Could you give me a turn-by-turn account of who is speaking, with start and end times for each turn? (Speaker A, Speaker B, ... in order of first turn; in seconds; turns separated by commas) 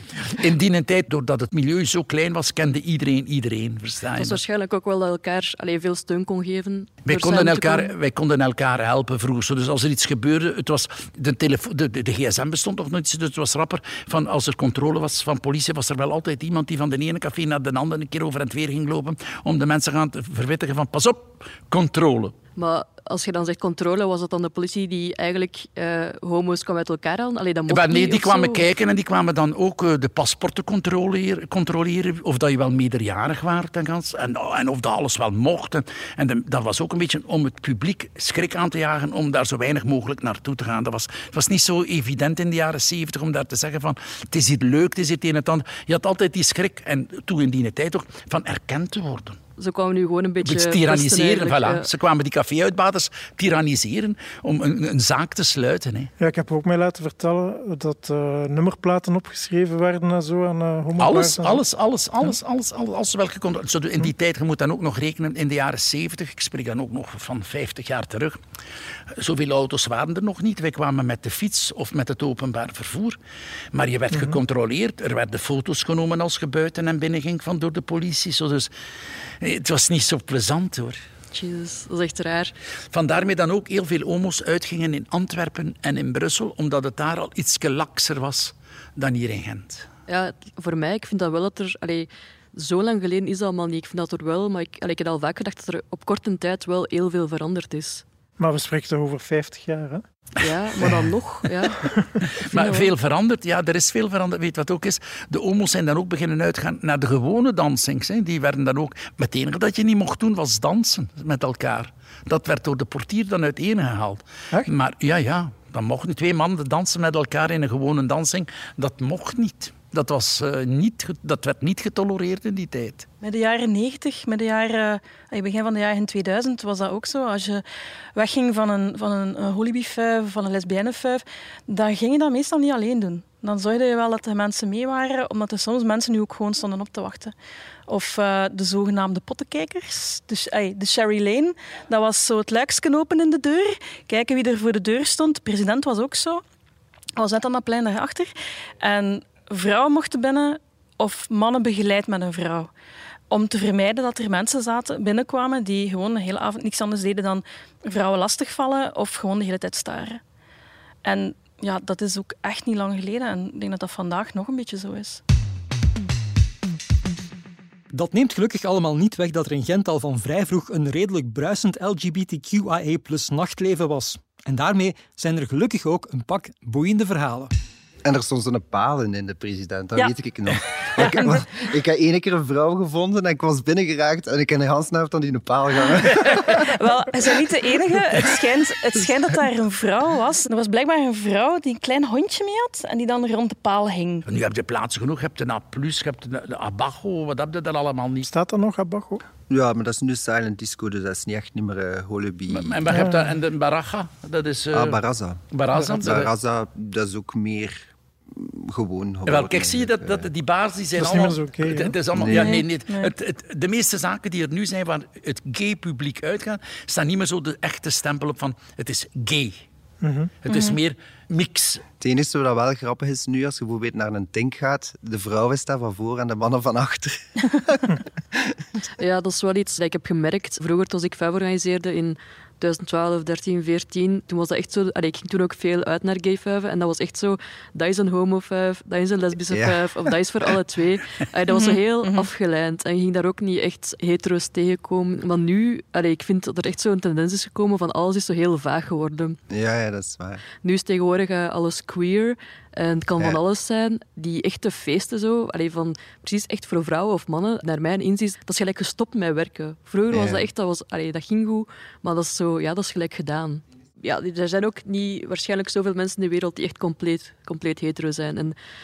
Speaker A: 0.3-4.4, Speaker B: 4.2-7.9, Speaker A: 7.0-22.4, Speaker B: 22.6-28.6, Speaker A: 27.7-49.4, Speaker B: 49.6-51.9, Speaker A: 50.4-56.1, Speaker C: 56.2-61.6, Speaker A: 61.0-68.4, Speaker A: 69.2-73.2, Speaker A: 73.7-78.7, Speaker C: 74.1-74.4, Speaker A: 79.4-81.0, Speaker B: 81.3-82.5, Speaker A: 82.9-89.9, Speaker B: 90.1-98.0, Speaker C: 98.4-100.0, Speaker B: 100.4-101.8, Speaker A: 102.3-123.0, Speaker B: 102.4-102.9, Speaker D: 123.2-127.6, Speaker D: 128.2-137.3, Speaker D: 137.9-146.4, Speaker D: 147.2-148.3, Speaker D: 148.8-152.7, Speaker D: 153.3-160.2, Speaker D: 161.0-165.2, Speaker E: 167.9-177.5, Speaker F: 178.0-186.7, Speaker D: 180.9-181.4, Speaker D: 186.3-194.2, Speaker A: 194.2-198.3, Speaker C: 198.2-199.2, Speaker F: 199.5-202.9, Speaker A: 202.5-205.0, Speaker C: 202.9-203.3, Speaker F: 204.7-205.4, Speaker A: 205.5-206.3, Speaker C: 205.8-206.0, Speaker F: 206.0-210.3, Speaker A: 209.3-219.6, Speaker C: 210.9-212.0, Speaker F: 212.1-212.6, Speaker D: 212.3-213.1, Speaker C: 220.0-220.3, Speaker A: 220.4-221.8, Speaker D: 220.5-220.8, Speaker F: 222.0-228.6, Speaker B: 229.0-249.4, Speaker F: 239.5-239.8, Speaker D: 241.5-242.3, Speaker F: 249.5-250.4, Speaker B: 250.6-268.5, Speaker F: 260.1-260.4